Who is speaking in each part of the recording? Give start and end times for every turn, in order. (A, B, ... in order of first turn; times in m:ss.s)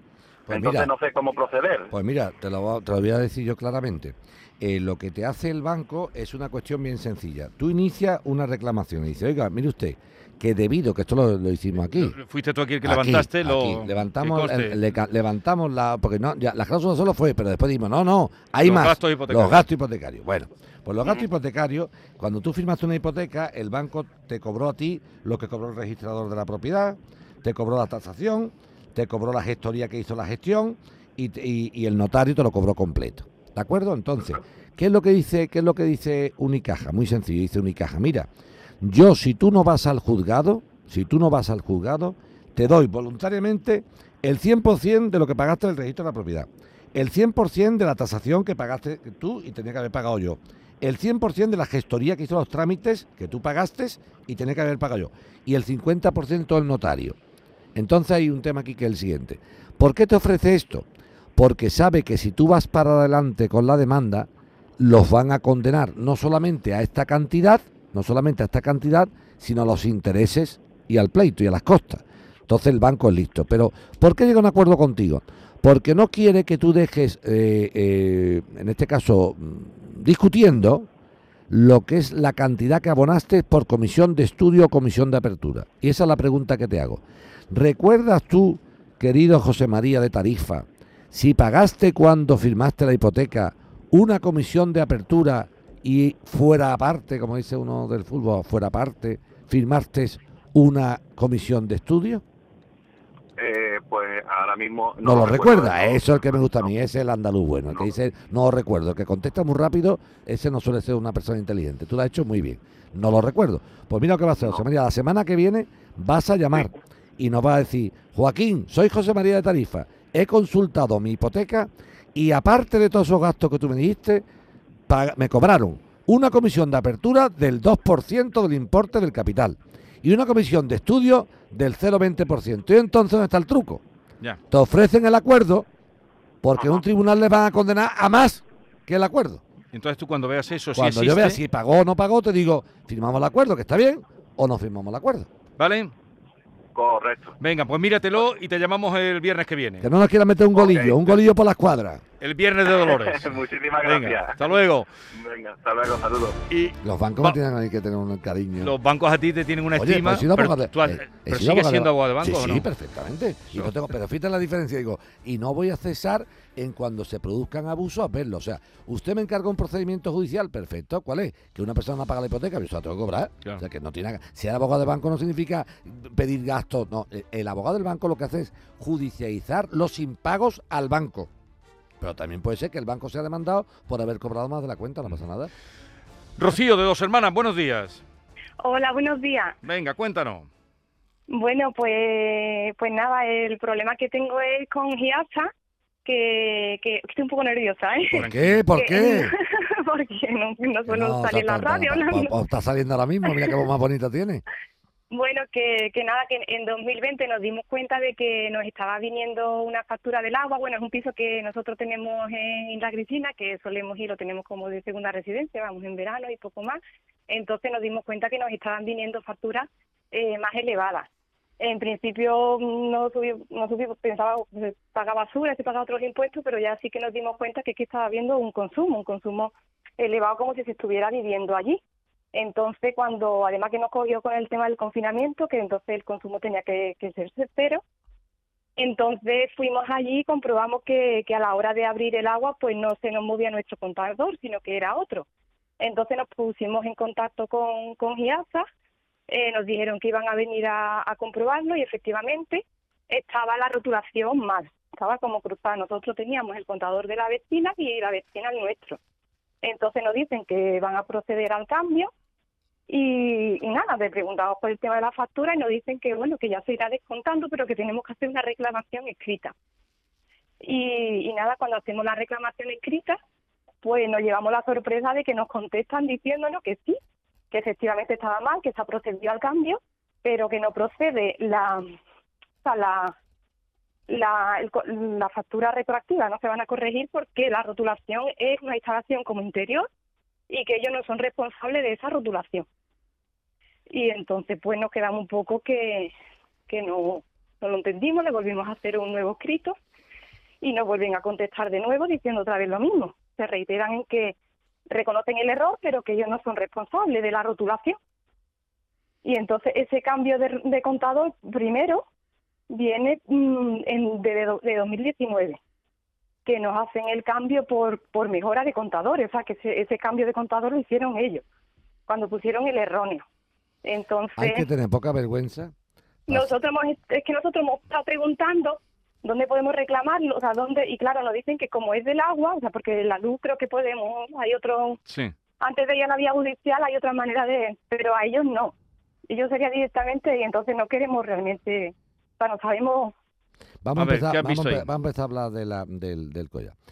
0:00.5-0:00.9 A
0:00.5-0:01.9 B
0:01.9-0:12.2 A
0:11.9-0:14.8 C
0:12.8-0:38.3 A
0:18.6-0:19.6 C
0:38.8-0:57.2 A
0:57.8-1:00.8 A
1:01.4-1:20.9 A
1:21.5-1:42.2 A
1:43.4-1:46.6 B
1:45.0-2:04.2 A
1:54.4-1:54.6 B
2:04.9-2:13.8 A
2:14.5-2:15.7 A
2:16.4-2:19.4 A
2:19.7-2:21.4 C
2:20.7-2:25.3 A
2:25.6-2:25.9 C
2:26.7-2:27.3 B
2:27.4-2:29.9 C
2:29.8-2:32.0 A
2:30.5-2:31.0 B
2:32.2-2:33.2 C
2:32.7-2:34.5 B
2:33.8-2:34.9 C
2:35.1-2:36.4 B
2:36.5-2:37.4 C
2:36.8-2:38.7 A
2:38.6-2:42.7 C
2:39.7-3:01.3 A
3:02.0-3:05.5 A
3:06.4-3:08.0 C
3:08.6-3:09.6 D
3:09.6-3:10.5 C
3:11.3-3:15.5 D
3:16.0-3:22.4 D
3:18.1-3:19.3 A
3:18.1-3:18.7 C
3:20.9-3:24.4 A
3:23.2-3:23.5 D
3:25.1-3:41.1 D
3:41.6-3:51.8 D
3:52.3-3:57.8 D
3:58.8-4:05.3 D
4:05.8-4:08.6 D
4:09.3-4:19.0 D
4:19.6-4:22.1 D
4:22.9-4:29.5 D
4:30.6-4:33.2 D
4:33.8-4:37.0 D
4:37.5-4:41.8 D
4:42.6-4:43.1 D
4:44.1-4:49.9 D
4:50.5-4:52.6 D
4:53.9-4:56.1 D
4:56.7-4:59.8 D
5:00.6-5:04.4 D
5:04.9-5:08.0 D
5:09.2-5:12.0 D
5:12.7-5:15.6 D
5:16.4-5:21.4 D
5:22.1-5:23.2 D
5:23.8-5:24.7 D
5:24.4-5:25.7 A
5:26.3-5:35.0 D
5:35.1-5:35.3 C
5:35.6-5:38.7 D
5:39.3-5:43.1 D
5:43.8-5:46.7 A
5:43.9-5:44.9 C